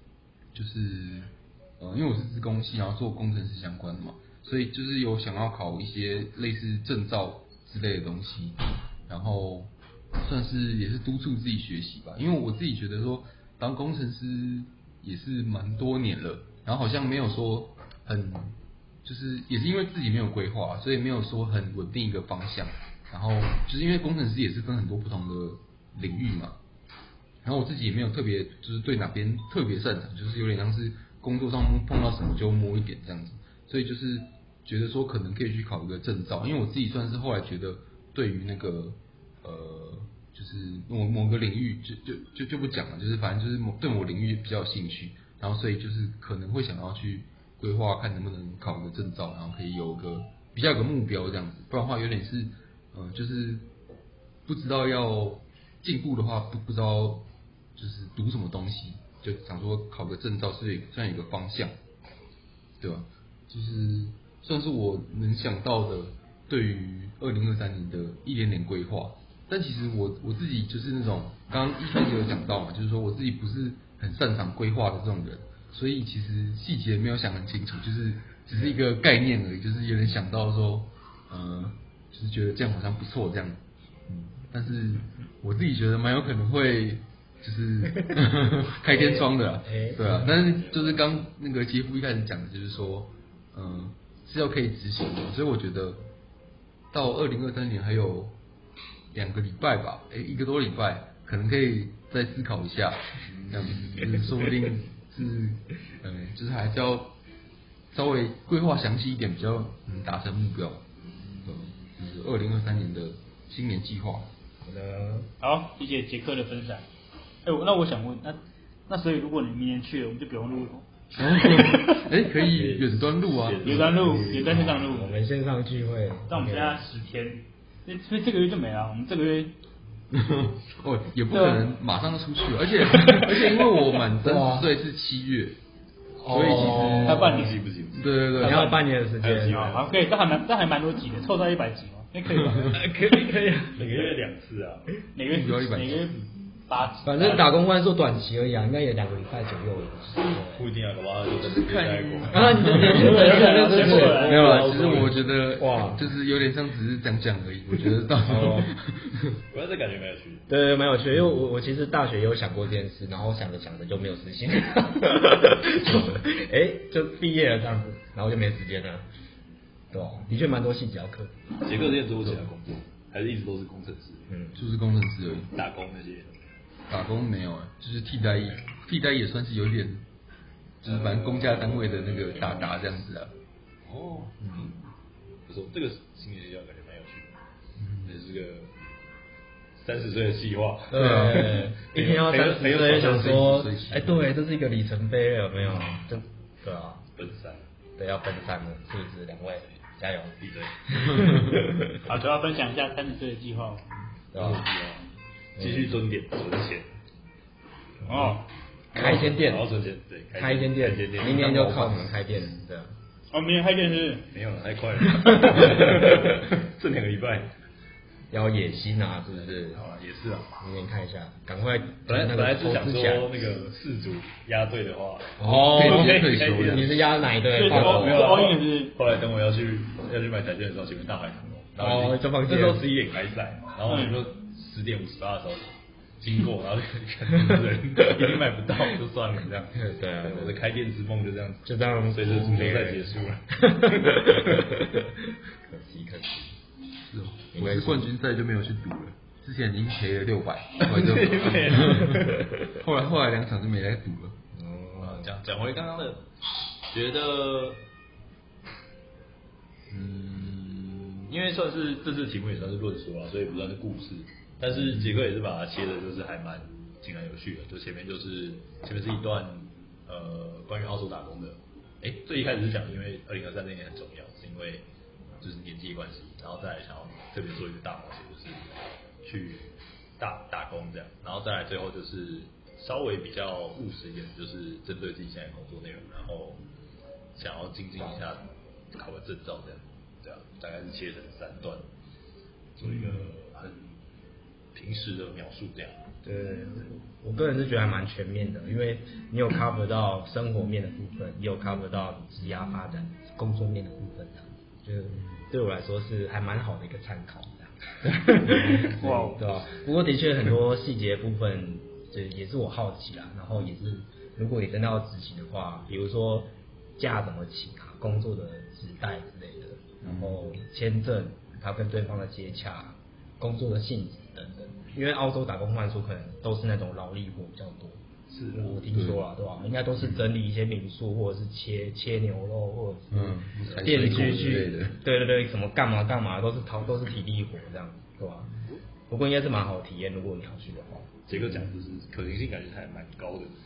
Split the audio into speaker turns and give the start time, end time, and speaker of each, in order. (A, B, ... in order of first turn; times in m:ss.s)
0:00.5-0:26.6 A
0:27.4-0:53.7 A
0:54.4-1:01.7 A
1:02.8-1:23.6 A
1:24.5-1:36.0 A
1:28.8-1:30.3 B
1:30.1-1:31.2 C
1:36.9-1:38.4 A
1:39.1-1:47.2 A
1:43.4-1:44.2 C
1:47.9-1:50.8 A
1:51.4-1:54.3 A
1:54.6-1:55.3 B
1:55.4-1:56.8 D
1:57.4-2:02.1 D
2:01.1-2:04.1 A
2:02.5-2:02.9 B
2:03.3-2:04.8 C
2:03.6-2:05.2 D
2:04.4-2:06.8 B
2:06.3-2:09.6 D
2:10.1-2:15.6 A
2:14.2-2:14.7 B
2:16.2-2:17.5 B
2:16.3-2:17.4 A
2:16.4-2:18.3 C
2:17.0-2:17.7 D
2:17.9-2:18.7 A
2:18.4-2:18.8 D
2:18.4-2:19.8 B
2:19.2-2:19.8 C
2:19.5-2:22.8 D
2:22.3-2:22.7 A
2:22.7-2:25.0 C
2:22.9-2:23.8 B
2:25.1-2:27.5 D
2:25.2-2:26.0 A
2:27.0-2:30.6 B
2:30.3-2:35.2 C
2:31.4-2:33.1 A
2:32.3-2:36.0 B
2:33.0-2:34.5 D
2:33.7-2:39.4 A
2:38.2-2:38.7 B
2:39.5-2:40.5 C
2:40.5-2:49.0 B
2:49.9-2:51.3 B
2:51.6-2:54.3 C
2:54.3-2:54.6 B
2:54.5-2:55.5 A
2:55.5-2:56.3 C
2:56.9-3:00.0 A
3:00.8-3:03.3 A
3:00.8-3:02.8 C
3:03.8-3:04.7 C
3:05.5-3:07.3 C
3:07.8-3:08.1 A
3:08.0-3:08.7 C
3:09.8-3:13.4 C
3:10.9-3:17.0 B
3:10.9-3:11.5 A
3:12.8-3:14.3 A
3:17.2-3:17.6 C
3:18.0-3:22.0 B
3:20.4-3:20.7 C
3:22.1-3:23.8 D
3:24.3-3:24.6 B
3:24.3-3:26.9 C
3:25.6-3:26.0 B
3:28.0-3:28.4 D
3:28.9-3:29.7 B
3:28.9-3:32.2 C
3:30.3-3:32.9 B
3:33.3-3:34.3 D
3:34.3-3:37.5 C
3:38.3-3:39.8 B
3:39.3-3:40.6 C
3:40.6-3:43.4 B
3:42.1-3:45.4 C
3:45.4-3:48.2 B
3:45.5-3:47.0 A
3:45.7-3:46.6 D
3:46.4-3:47.0 C
3:47.5-3:48.9 D
3:47.6-3:48.1 A
3:47.7-4:04.7 C
3:51.8-3:52.8 B
3:53.9-3:54.2 D
3:59.7-4:00.6 B
4:01.6-4:03.0 B
4:03.6-4:06.5 B
4:07.0-4:14.4 A
4:07.5-4:08.1 B
4:10.8-4:12.5 C
4:14.5-4:15.3 B
4:15.0-4:16.2 C
4:16.9-4:17.8 C
4:19.9-4:34.8 C
4:35.4-4:38.7 C
4:39.2-4:46.6 C
4:47.3-4:51.8 C
4:52.8-4:53.9 C
4:54.7-4:56.0 C
4:56.2-5:28.0 B
5:08.7-5:09.4 D
5:20.0-5:20.4 A
5:28.3-5:28.8 C
5:28.5-5:38.5 B
5:28.9-5:29.2 A
5:33.1-5:35.0 A
5:39.1-5:41.1 B
5:41.3-5:43.5 C